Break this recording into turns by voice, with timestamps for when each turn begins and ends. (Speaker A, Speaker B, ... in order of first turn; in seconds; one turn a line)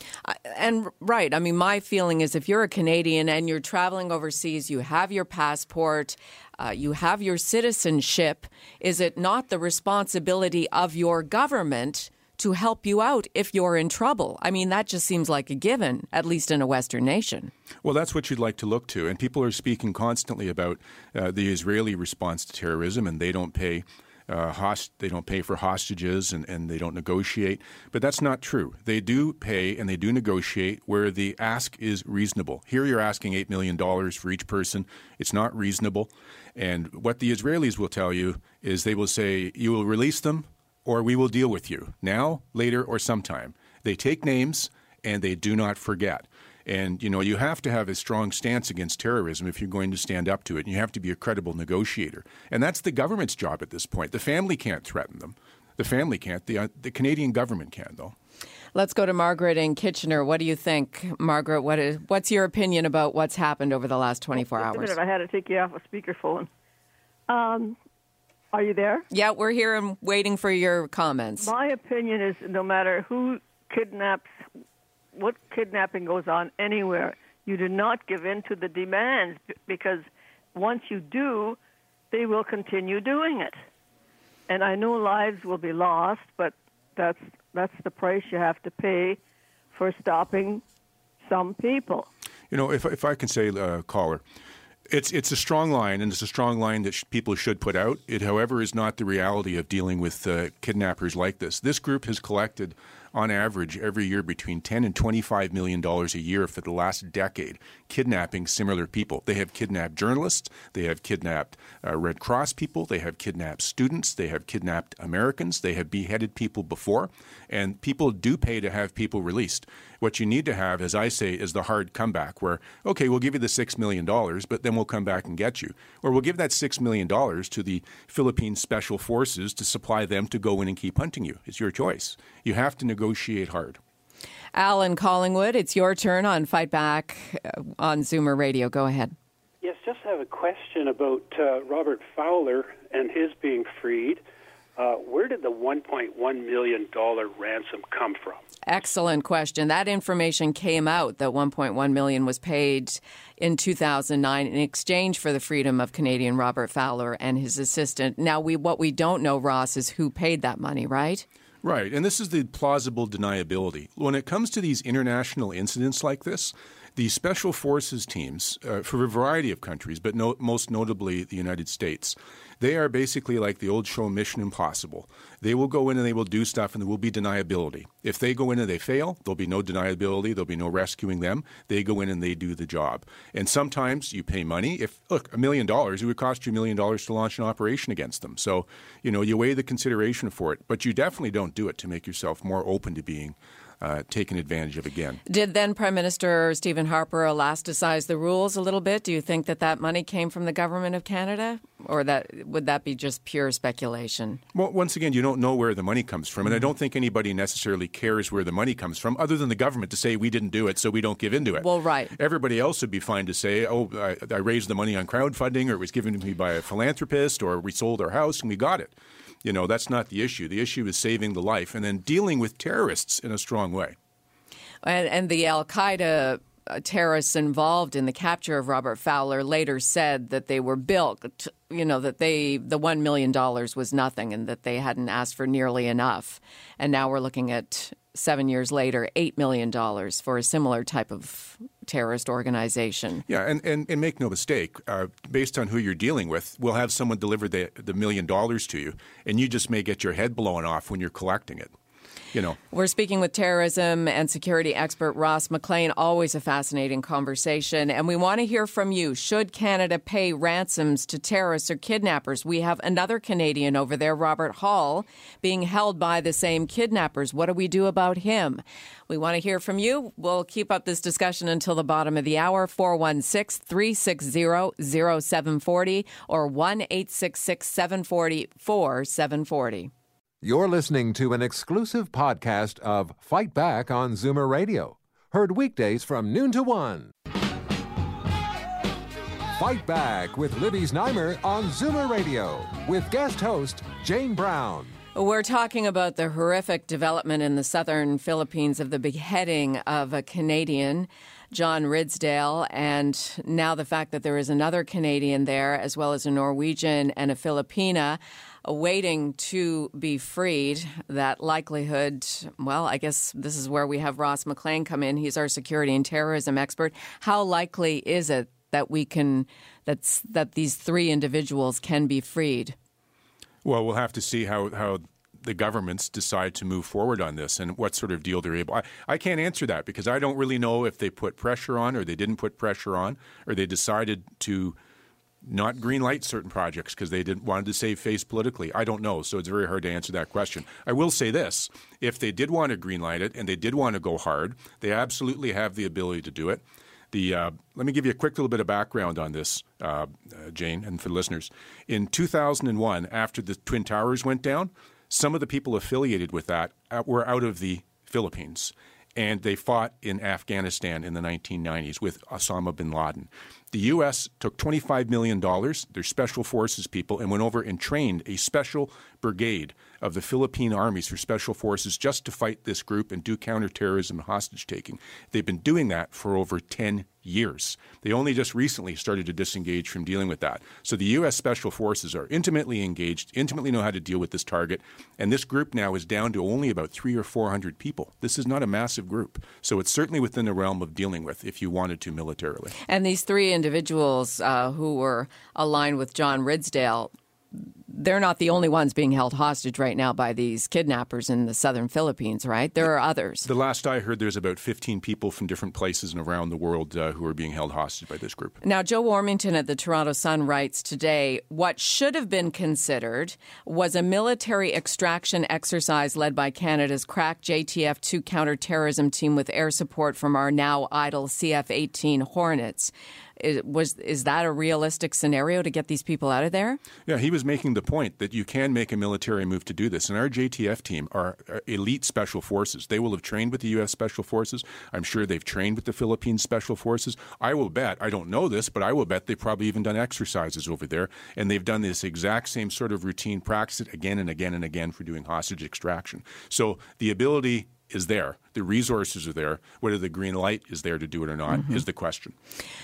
Speaker A: 0.2-17.5
Speaker B: 17.8-58.1
Speaker A: 58.8-65.0
Speaker C: 64.4-66.5
Speaker C: 67.3-67.8
Speaker C: 68.5-69.0
Speaker A: 69.1-71.5
Speaker C: 71.4-74.3
Speaker C: 75.2-81.6
Speaker C: 82.1-83.6
Speaker C: 84.5-89.2
Speaker C: 89.7-90.6
Speaker C: 91.2-92.1
Speaker B: 92.5-94.2
Speaker B: 94.9-133.8
Speaker A: 134.5-139.2
Speaker D: 139.6-144.2
Speaker D: 144.8-148.4
Speaker A: 148.7-161.2
Speaker B: 161.6-195.2
Speaker A: 195.3-204.4
Speaker B: 204.5-218.9
Speaker A: 211.6-212.2
Speaker B: 219.4-224.0
Speaker A: 224.8-243.2
Speaker B: 243.3-251.7
Speaker A: 252.7-279.9
Speaker E: 280.4-287.1
Speaker E: 289.5-294.9
Speaker A: 295.1-322.8
Speaker B: 323.6-334.8
Speaker B: 335.4-346.6
Speaker B: 347.1-392.8
Speaker A: 392.9-403.5
Speaker B: 403.4-408.6
Speaker A: 408.6-426.8
Speaker B: 427.1-452.4
Speaker A: 451.5-451.8